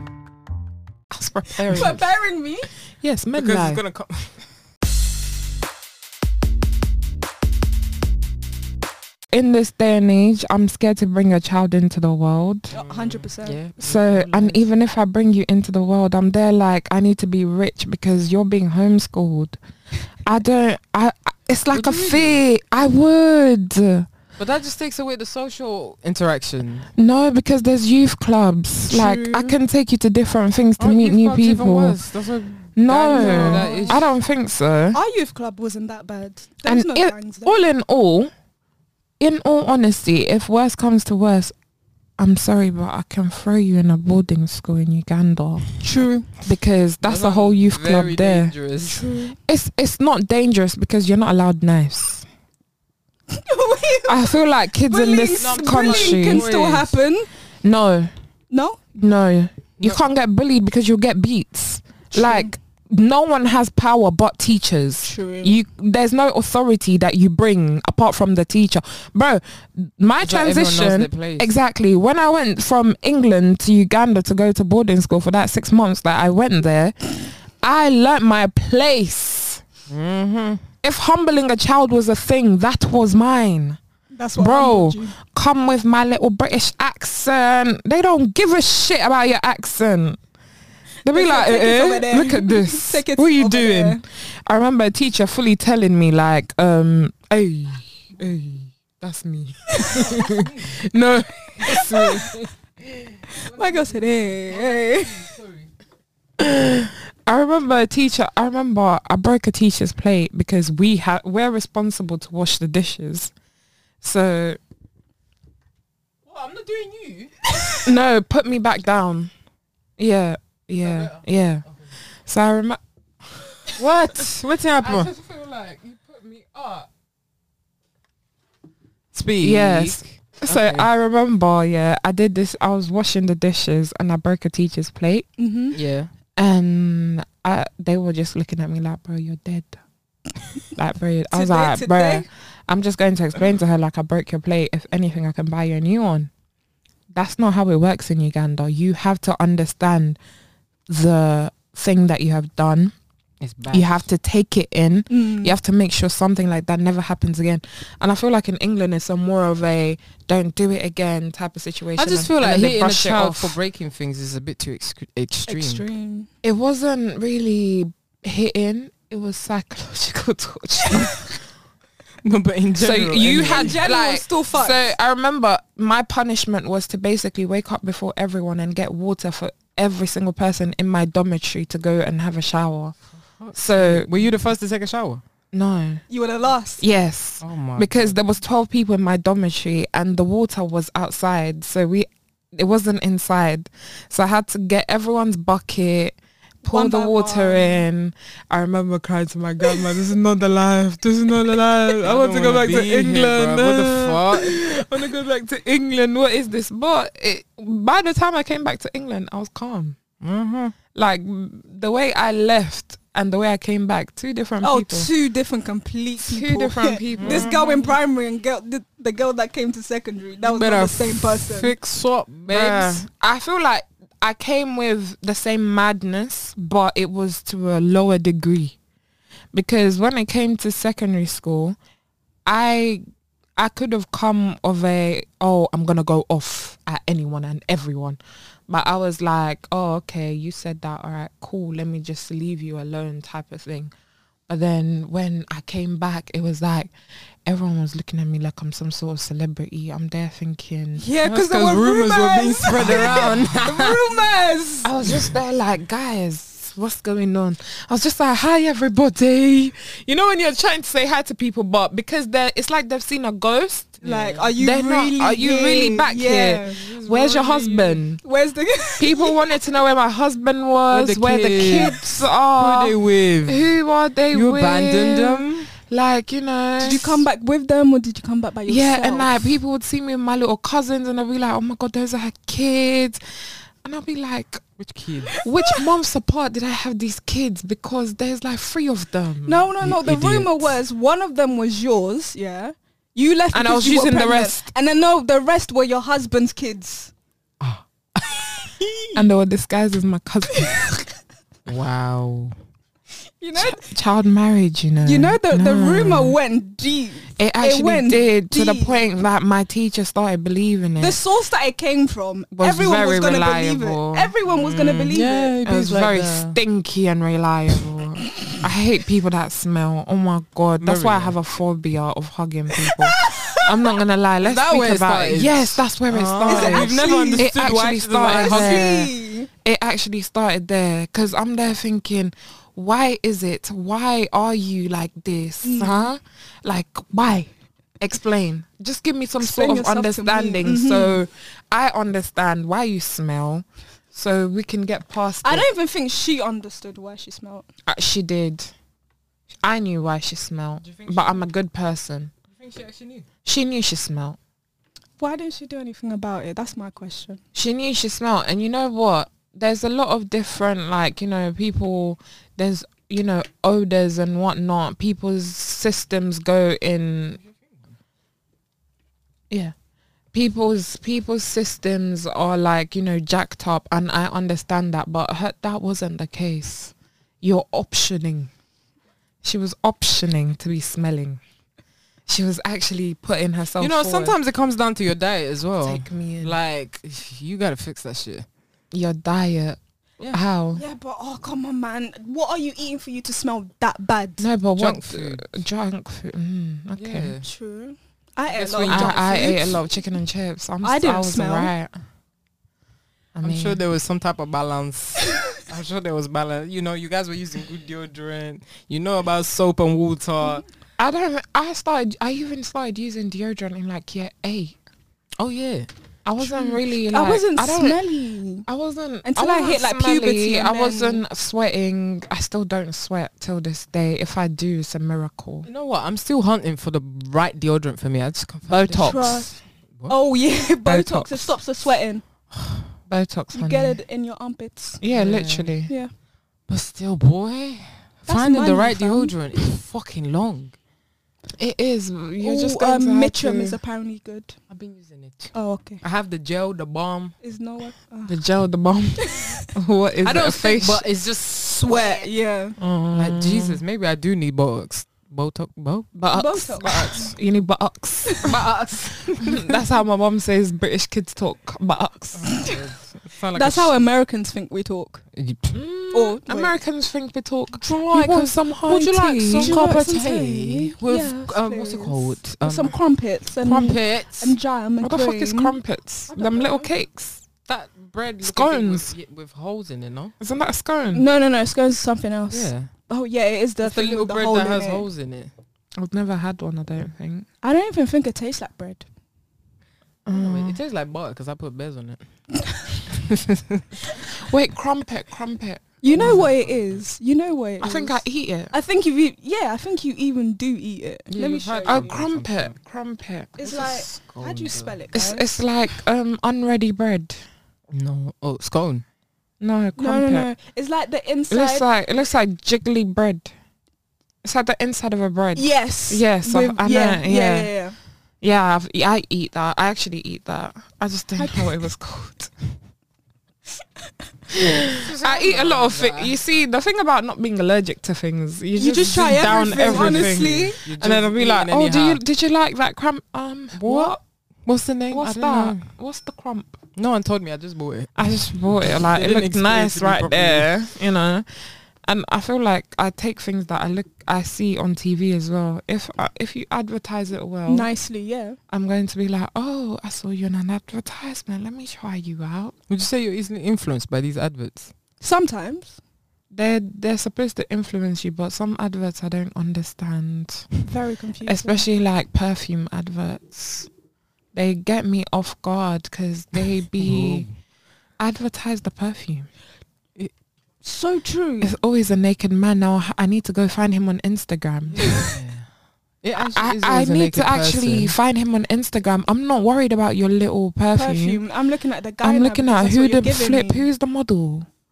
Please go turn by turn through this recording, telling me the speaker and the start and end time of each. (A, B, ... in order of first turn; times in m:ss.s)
0:01.1-0:02.0 A
0:01.6-0:02.7 B
0:03.0-0:03.8 A
0:03.3-0:04.4 C
0:09.3-0:12.7 A
0:12.7-0:13.6 B
0:12.7-0:14.6 C
0:13.8-0:19.6 A
0:20.2-0:24.1 A
0:21.7-0:22.4 C
0:24.4-0:26.9 C
0:27.0-0:32.0 A
0:28.9-0:29.6 B
0:30.8-0:34.0 C
0:32.8-0:35.0 A
0:33.1-0:34.0 B
0:34.9-0:37.6 B
0:36.6-0:38.3 A
0:39.2-0:41.5 A
0:42.2-0:45.7 A
0:45.8-0:46.3 B
0:46.4-0:48.5 A
0:47.0-0:49.1 C
0:48.8-0:49.4 B
0:49.3-0:52.2 A
0:53.3-0:57.3 B
0:54.0-0:56.5 A
0:55.4-0:57.0 C
0:57.6-0:58.1 A
0:58.5-0:58.8 B
0:58.9-1:19.6 A
1:02.1-1:02.5 B
1:05.0-1:05.6 B
1:10.2-1:11.5 C
1:19.9-1:20.6 C
1:20.8-1:23.8 A
1:24.1-1:25.1 B
1:24.3-1:30.2 A
1:31.0-1:34.0 B
1:31.0-1:42.4 A
1:39.7-1:40.1 B
1:39.9-1:40.7 C
1:41.6-1:42.2 B
1:43.3-1:45.3 B
1:43.4-1:45.7 C
1:46.4-1:53.3 A
1:54.0-1:54.6 A
1:56.2-1:57.9 C
1:57.8-1:59.3 A
2:00.0-2:01.7 A
2:00.8-2:01.2 C
2:02.2-2:02.8 A
2:03.6-2:06.8 A
2:03.7-2:05.1 C
2:09.1-2:10.9 C
2:09.4-2:15.3 A
2:15.4-2:15.8 B
2:15.7-2:16.1 C
2:16.4-2:19.8 A
2:20.7-2:26.3 A
2:21.3-2:22.2 B
2:27.1-2:30.2 A
2:30.9-2:32.9 A
2:33.4-2:34.0 C
2:33.7-2:43.6 A
2:35.1-2:35.6 B
2:42.0-2:45.8 C
2:45.5-2:46.3 B
2:46.4-2:51.3 A
2:52.2-2:53.8 C
2:52.8-3:03.0 A
2:53.4-2:54.8 B
3:03.4-3:05.2 C
3:03.5-3:04.3 A
3:05.5-3:06.0 A
3:06.1-3:06.8 B
3:06.8-3:30.0 A
3:07.4-3:08.2 C
3:16.6-3:17.8 B
3:22.0-3:24.6 C
3:30.2-3:30.7 C
3:30.9-3:35.1 A
3:34.6-3:41.7 B
3:36.2-3:37.5 A
3:37.2-3:38.0 C
3:40.4-3:43.0 C
3:42.5-3:48.8 A
3:49.5-3:51.8 A
3:52.4-3:53.0 A
3:53.6-3:58.2 A
3:58.7-4:03.9 A
4:04.5-4:06.9 A
4:07.4-4:11.0 A
4:11.0-4:14.9 B
4:11.2-4:14.0 C
4:12.7-4:13.5 A
4:14.8-4:24.0 A
4:24.0-4:24.5 C
4:24.0-4:26.8 B
4:24.6-4:28.2 A
4:26.6-4:28.0 C
4:28.2-4:29.5 B
4:29.0-4:37.2 A
4:30.9-4:32.0 C
4:31.6-4:32.2 B
4:32.5-4:33.7 C
4:34.3-4:35.7 C
4:36.8-4:39.5 B
4:38.7-4:43.2 A
4:43.8-4:44.6 A
4:44.8-4:45.4 C
4:45.3-4:45.8 B
4:45.4-4:49.7 A
4:49.5-4:57.1 B
4:49.8-4:50.7 C
4:53.5-4:54.7 A
4:57.6-4:59.2 C
4:59.1-5:00.8 A
5:00.6-5:01.0 B
5:01.6-5:02.6 C
5:03.4-5:03.9 B
5:03.5-5:06.4 A
5:05.0-5:09.0 B
5:07.4-5:11.2 A
5:11.0-5:15.5 B
5:12.5-5:45.6 A
5:15.1-5:16.6 C
5:20.8-5:21.3 C
5:23.1-5:23.7 B
5:24.4-5:28.9 C
5:26.4-5:27.5 B
5:28.1-5:29.5 B
5:35.6-5:36.1 B
5:39.4-5:41.2 B
5:45.4-5:47.7 B
5:47.9-5:48.7 A
5:49.6-5:52.3 A
5:50.8-5:51.5 C
5:52.5-5:53.2 C
5:53.4-5:54.4 A
5:55.2-5:57.4 B
5:57.5-6:07.4 A
6:10.3-6:18.5 A
6:19.4-6:21.4 A
6:22.3-6:24.4 A
6:23.8-6:28.4 C
6:25.8-6:26.6 A
6:28.9-6:30.8 A
6:30.7-6:34.4 B
6:34.4-6:37.3 A
6:34.8-6:35.6 C
6:37.0-6:37.4 C
6:37.4-6:39.8 B
6:38.5-6:39.6 C
6:38.9-6:41.9 A
6:40.8-6:41.7 B
6:43.3-6:43.8 A
6:43.4-6:50.6 C
6:51.0-6:54.8 A
6:55.4-6:55.9 C
6:56.2-6:58.0 A
6:56.4-6:58.7 B
6:58.6-7:05.7 A
6:59.2-7:01.2 B
7:05.6-7:09.4 C
7:08.7-7:09.5 A
7:09.0-7:12.2 B
7:10.8-7:11.6 A
7:12.5-7:12.9 C
7:13.1-7:14.0 A
7:13.5-7:15.0 B
7:15.0-7:15.9 A
7:15.1-7:15.7 C
7:15.9-7:16.1 B
7:16.7-7:20.8 C
7:18.3-7:19.7 B
7:21.6-7:23.8 A
7:22.4-7:24.6 B
7:24.7-7:27.4 C
7:25.5-7:26.0 B
7:27.4-7:28.4 B
7:28.2-7:31.0 A
7:29.2-7:29.7 B
7:30.2-7:32.2 C
7:31.6-7:32.8 B
7:32.8-7:33.8 A
7:33.1-7:36.1 C
7:36.1-7:38.6 A
7:36.3-7:37.3 B
7:36.8-7:37.2 C
7:38.2-7:38.5 B
7:38.4-7:39.8 C
7:39.4-7:42.5 A
7:42.3-7:44.0 C
7:42.5-7:42.8 B
7:43.5-7:45.2 B
7:45.3-7:45.8 C
7:45.7-7:49.8 A
7:46.1-7:46.7 B
7:47.7-7:53.0 C
7:49.5-7:55.7 B
7:53.6-7:54.6 C
7:55.0-7:57.4 A
7:56.3-7:56.9 B
7:57.7-8:00.3 C
7:58.4-7:59.1 A
8:00.4-8:01.2 A
8:01.1-8:05.0 B
8:02.5-8:02.9 C
8:03.8-8:05.5 C
8:06.0-8:07.4 A
8:07.6-8:09.0 B
8:10.2-8:10.8 A
8:10.3-8:12.2 C
8:13.1-8:13.8 C
8:14.3-8:16.4 A
8:16.0-8:22.2 B
8:16.1-8:17.0 C
8:17.8-8:18.7 A
8:21.3-8:22.7 C
8:21.8-8:23.8 A
8:23.6-8:25.5 B
8:23.6-8:25.0 C
8:25.1-8:27.4 A
8:27.9-8:29.0 C
8:29.6-8:30.5 A
8:30.0-8:31.8 B
8:31.5-8:33.5 A
8:34.4-8:37.7 A
8:35.5-8:38.0 B
8:38.4-8:42.8 A
8:41.4-8:41.6 B
8:44.5-8:54.2 A
8:44.9-8:46.4 C
8:48.8-8:50.8 B
8:49.4-8:52.2 C
8:53.7-8:55.9 C
8:55.1-8:56.8 A
8:57.0-9:00.7 C
8:58.2-9:01.4 A
9:02.0-9:07.9 A
9:07.7-9:08.6 B
9:08.7-9:12.7 A
9:12.9-9:14.9 C
9:15.2-9:16.0 B
9:16.5-9:20.7 A
9:20.8-9:21.8 B
9:21.4-9:23.9 A
9:24.5-9:27.5 A
9:27.0-9:27.5 C
9:28.2-9:29.5 A
9:30.8-9:31.7 B
9:31.6-9:35.3 A
9:34.9-9:35.7 C
9:36.2-9:38.1 C
9:36.4-9:41.4 A
9:40.9-9:43.9 B
9:42.2-9:44.7 A